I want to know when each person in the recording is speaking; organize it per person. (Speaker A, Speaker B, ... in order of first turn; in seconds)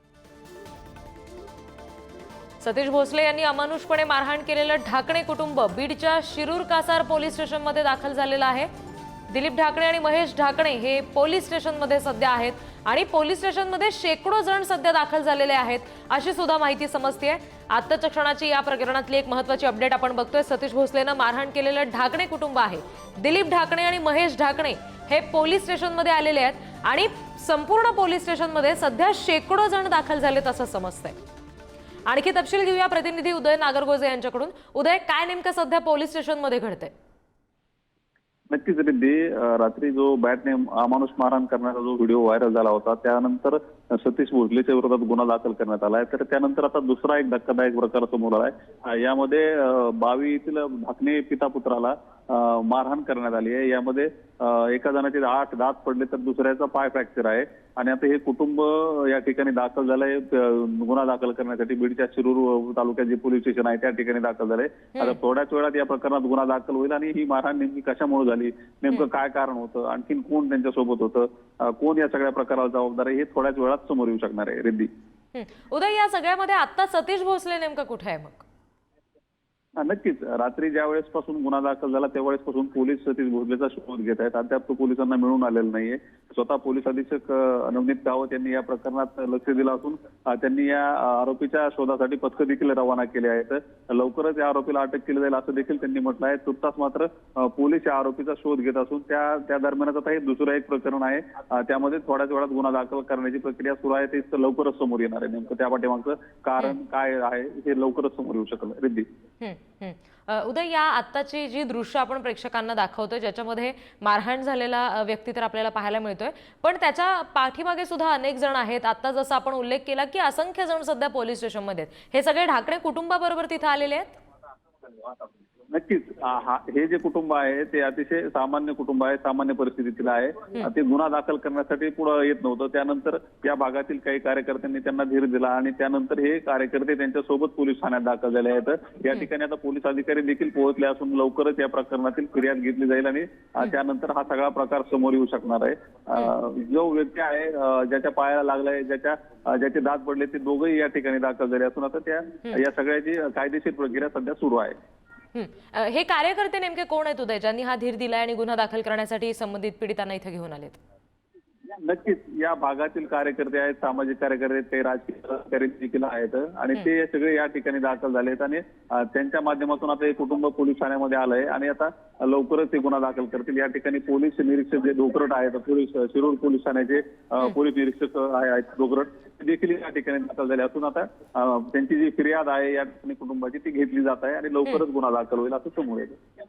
Speaker A: 2.6-8.7, 9.3-31.2, 32.1-36.9, 75.3-78.5, 109.4-124.2, 155.3-160.8
Speaker B: 38.5-74.9, 79.8-109.1, 125.7-154.8, 161.8-186.2